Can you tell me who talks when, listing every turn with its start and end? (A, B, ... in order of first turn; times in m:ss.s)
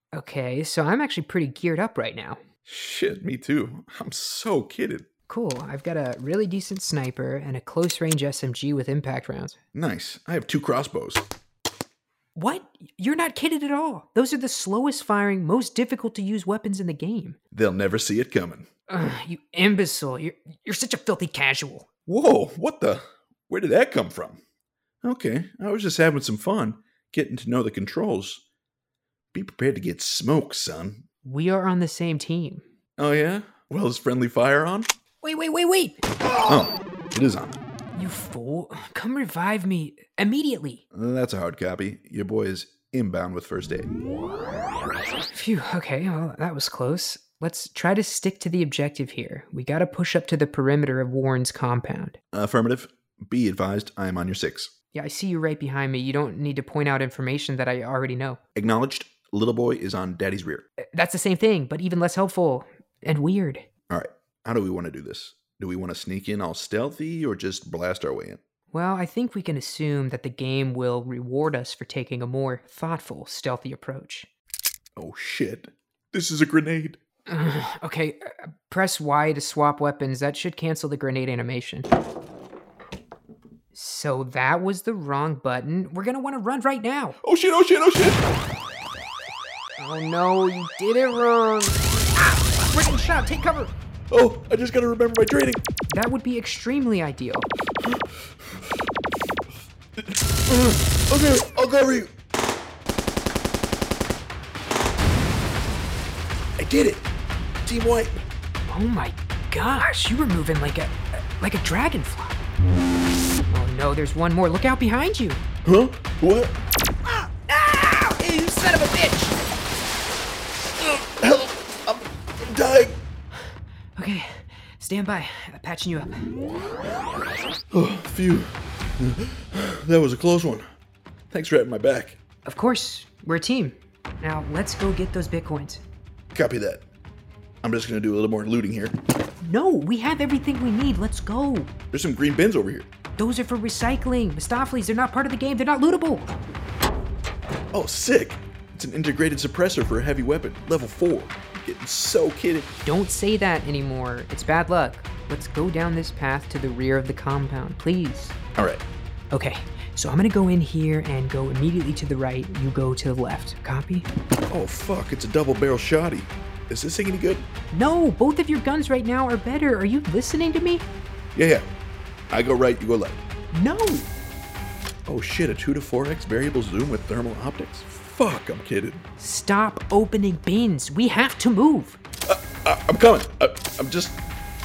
0:00.1-0:02.4 A
0:02.6-0:05.1 B
0:05.3-0:09.6 A
0:09.7-0:11.2 B
0:12.4-0:17.4 A
0:17.5-0:18.7 B
0:18.9-0:21.9 A
0:22.1-0:24.4 B
0:25.0-0:28.4 B
0:29.3-0:31.0 B
0:31.2-0:32.6 A
0:33.0-0:34.9 B
0:35.2-0:36.7 A
0:36.4-0:37.6 B
0:37.9-0:40.8 A
0:40.9-0:43.9 B
0:45.3-0:52.2 A
0:52.3-0:54.7 B
0:54.9-0:58.4 A
0:58.6-1:00.6 B
1:00.9-1:03.7 A
1:03.9-1:08.4 B
1:08.7-1:14.3 A
1:15.0-1:17.0 B
1:17.3-1:21.9 A
1:23.7-1:27.2 A
1:27.2-1:28.2 B
1:29.8-1:33.7 A
1:34.1-1:35.6 B
1:35.9-1:37.5 A
1:37.8-1:38.7 B
1:40.0-1:42.1 B
1:46.6-1:47.1 B
1:47.6-1:48.2 B
1:48.7-1:52.4 A
1:53.5-1:55.4 A
1:55.6-1:56.6 B
1:57.1-1:59.4 A
2:00.8-2:03.0 B
2:04.0-2:06.3 A
2:07.7-2:10.6 B
2:11.3-2:12.2 B
2:12.4-2:15.8 A
2:16.3-2:16.8 B
2:17.6-2:19.0 B
2:19.4-2:21.7 A
2:21.9-2:22.9 B
2:23.2-2:26.3 A
2:27.7-2:32.7 B
2:32.9-2:38.4 A
2:38.6-2:38.8 B
2:39.3-2:44.1 A
2:44.5-2:47.5 B
2:47.7-2:50.9 A
2:51.4-2:51.7 B
2:52.3-2:53.2 B
2:53.5-2:54.1 A
2:55.1-2:59.0 B
2:59.2-3:02.0 A
3:02.3-3:04.2 B